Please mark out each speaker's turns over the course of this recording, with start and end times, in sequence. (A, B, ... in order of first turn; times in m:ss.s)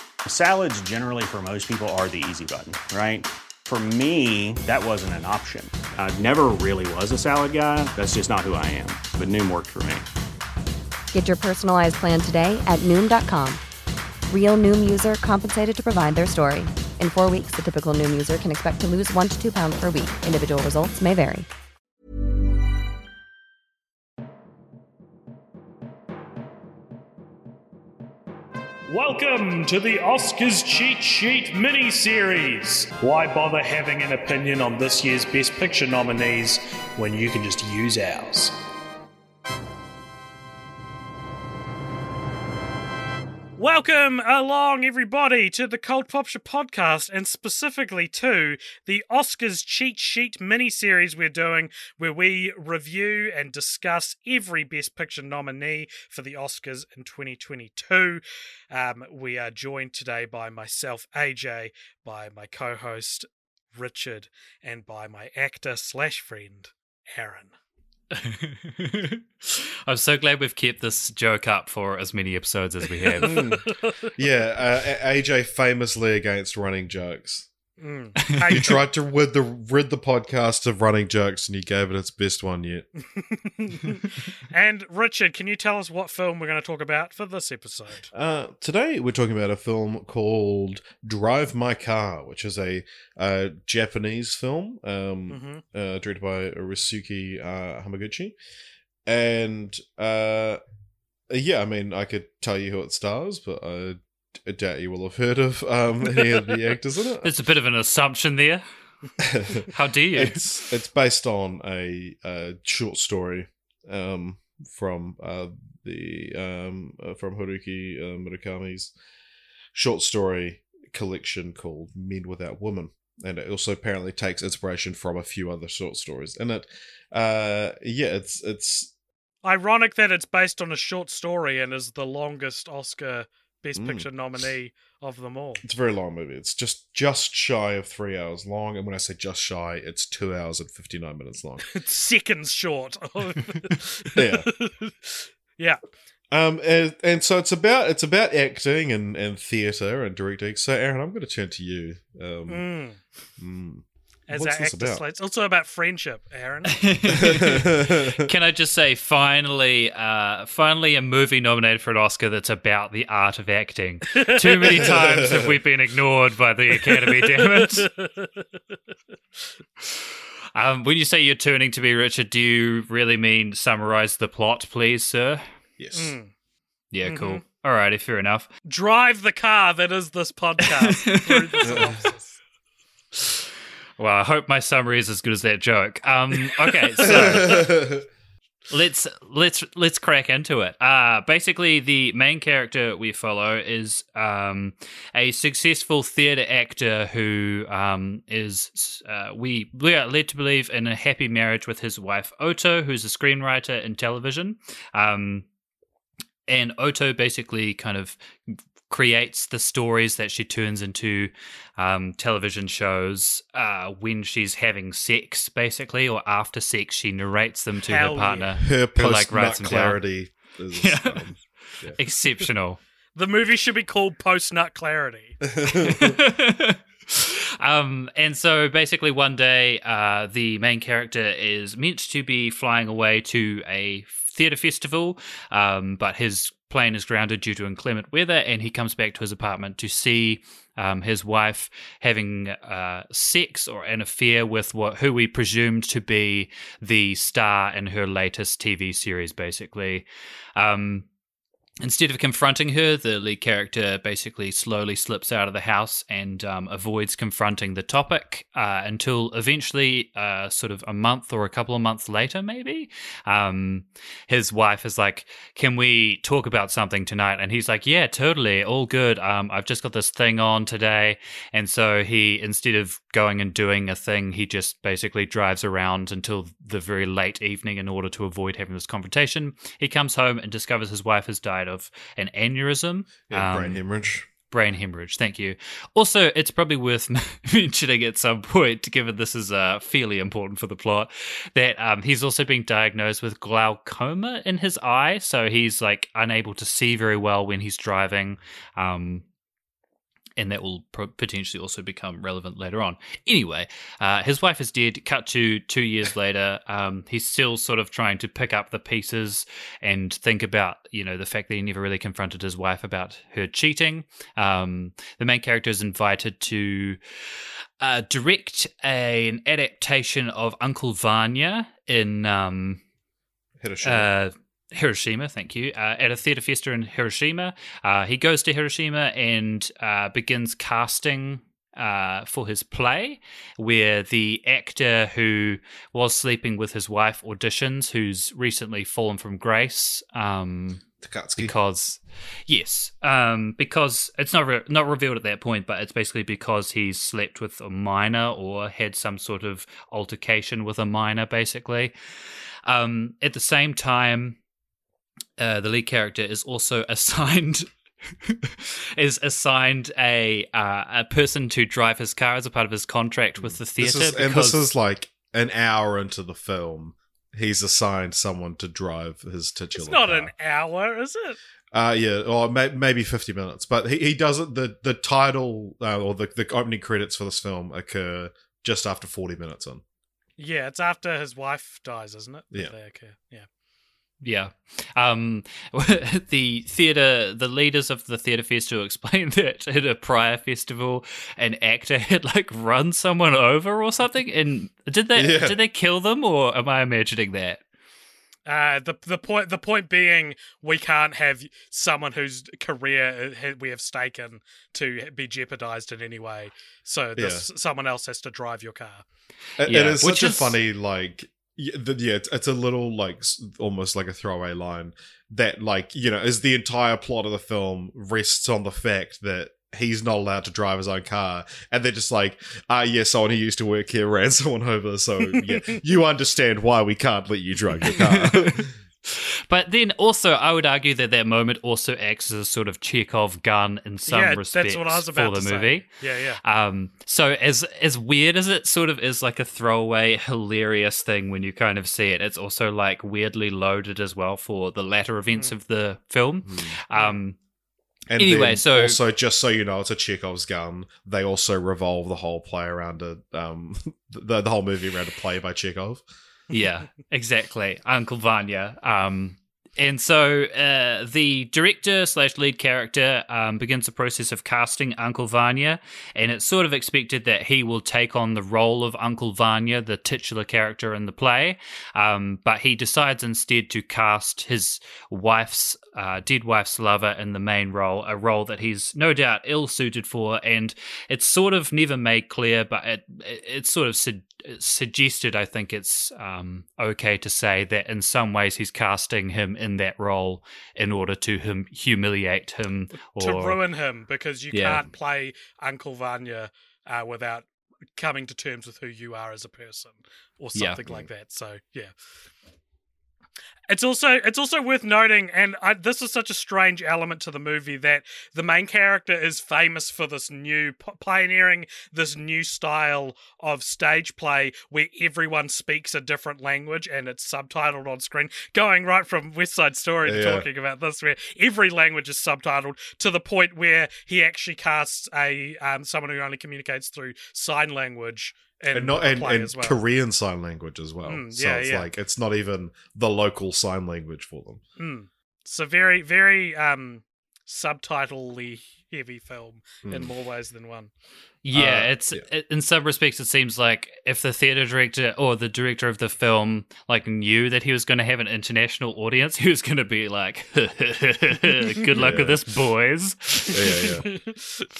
0:00.2-0:10.0 A
0:11.1-0:13.6 B
0:14.3-0:21.5 B
0:28.9-0:38.5 C
0:43.6-1:07.5 C
1:08.1-1:13.5 D
1:13.0-1:14.1 C
1:13.2-1:17.5 E
1:17.8-1:18.8 C
1:18.3-1:18.6 D
1:18.5-1:22.9 E
1:23.2-1:28.1 C
1:28.1-1:38.3 E
1:35.3-1:35.6 C
1:39.1-1:40.6 E
1:41.3-1:47.3 E
1:47.2-1:48.6 D
1:49.2-1:58.9 E
1:49.7-1:50.7 D
1:59.7-2:08.9 E
2:09.4-2:15.6 C
2:13.8-2:14.1 E
2:15.6-2:21.7 E
2:21.7-2:25.8 C
2:24.1-2:24.5 E
2:26.3-2:32.7 E
2:32.5-2:33.0 C
2:33.4-2:35.0 E
2:34.3-2:36.9 C
2:36.8-2:47.9 D
2:37.1-2:38.3 E
2:44.2-2:45.0 C
2:44.8-2:45.6 E
2:46.9-2:48.4 C
2:49.8-2:55.4 D
2:55.8-2:56.1 E
2:55.9-2:56.3 C
2:56.9-2:58.5 D
2:57.0-2:57.4 C
2:58.7-3:02.4 C
3:00.8-3:01.9 D
3:01.7-3:02.0 E
3:04.0-3:07.8 D
3:07.0-3:08.0 E
3:08.7-3:25.5 D
3:26.5-3:40.0 D
3:37.9-3:38.5 C
3:38.6-3:42.0 E
3:40.7-3:41.3 D
3:41.9-3:42.8 D
3:43.2-3:45.4 C
3:45.5-3:46.0 E
3:45.7-4:10.0 D
4:10.6-4:11.1 D
4:11.8-4:43.8 D
4:43.3-4:44.3 E
4:44.5-4:59.2 D
5:00.4-5:17.0 D
5:17.8-5:22.8 D
5:23.6-5:24.1 E
5:23.8-5:40.8 D
5:41.0-5:41.5 E
5:41.4-5:51.9 D
5:52.7-5:54.4 D
5:55.4-6:04.7 D
6:03.4-6:10.3 E
6:09.8-6:11.4 C
6:11.7-6:19.8 E
6:20.4-6:23.5 C
6:24.2-6:37.6 D
6:35.1-6:35.6 E
6:38.4-6:49.0 C
6:47.2-6:47.5 E
6:49.6-7:08.7 E
6:49.6-6:50.6 D
7:08.0-7:15.9 D
7:14.1-7:16.4 C
7:16.4-7:27.4 D
7:26.4-7:26.8 E
7:26.9-7:27.2 C
7:28.1-7:36.0 E
7:28.2-7:29.0 D
7:36.5-8:13.6 D
8:13.2-8:21.9 C
8:14.5-8:14.9 D
8:20.6-8:20.8 D
8:23.7-8:49.8 C
8:40.0-8:40.5 E
8:48.7-8:54.6 E
8:51.0-8:51.9 C
8:54.8-9:00.9 C
8:59.9-9:00.1 E
9:01.4-9:14.0 D
9:01.5-9:02.2 E
9:12.0-9:12.4 E
9:13.5-9:14.1 E
9:14.1-9:14.4 C